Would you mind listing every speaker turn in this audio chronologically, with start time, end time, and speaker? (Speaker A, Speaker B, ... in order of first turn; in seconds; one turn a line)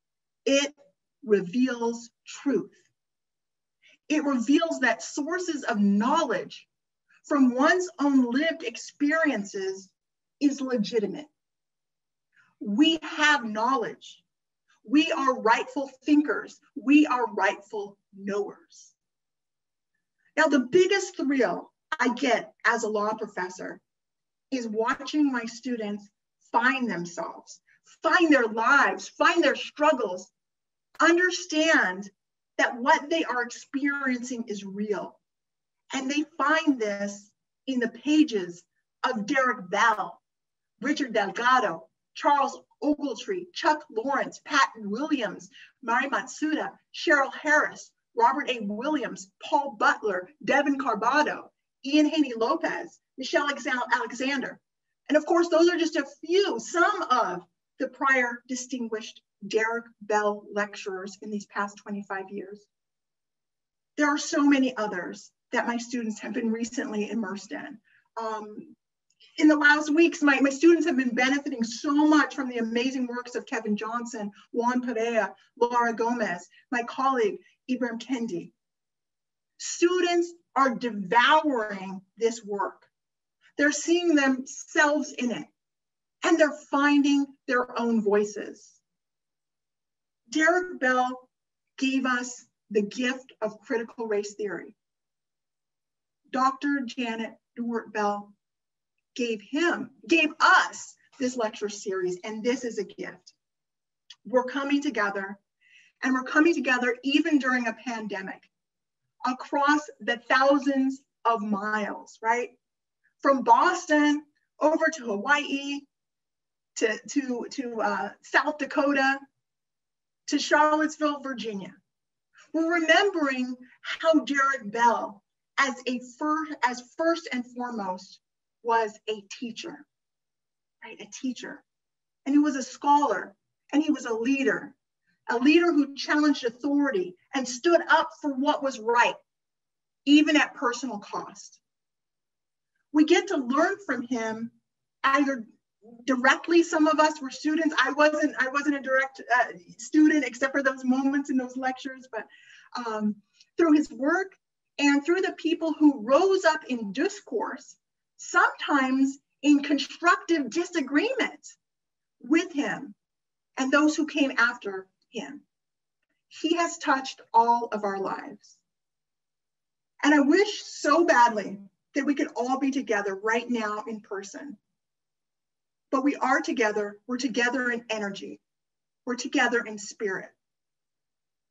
Speaker A: 0.4-2.8
Speaker A: 4.1-6.7
Speaker A: 7.2-11.3
Speaker A: 12.6-14.2
Speaker A: 14.8-18.9
Speaker A: 20.4-23.8
Speaker A: 24.5-30.3
Speaker A: 31.0-35.2
Speaker A: 35.9-40.2
Speaker A: 40.8-62.7
Speaker A: 64.0-68.7
Speaker A: 69.4-78.5
Speaker A: 79.6-82.9
Speaker A: 83.6-85.5
Speaker A: 86.2-88.8
Speaker A: 90.3-94.7
Speaker A: 96.3-98.3
Speaker A: 99.1-103.3
Speaker A: 104.2-105.4
Speaker A: 106.0-108.5
Speaker A: 109.2-112.5
Speaker A: 113.2-115.8
Speaker A: 116.7-119.2
Speaker A: 120.3-121.8
Speaker A: 122.5-129.8
Speaker A: 130.8-131.6
Speaker A: 132.2-134.7
Speaker A: 135.3-139.2
Speaker A: 140.1-141.6
Speaker A: 142.9-145.4
Speaker A: 146.0-161.5
Speaker A: 162.2-162.9
Speaker A: 163.6-165.4
Speaker A: 166.3-168.6
Speaker A: 170.0-174.6
Speaker A: 175.9-178.4
Speaker A: 179.1-180.3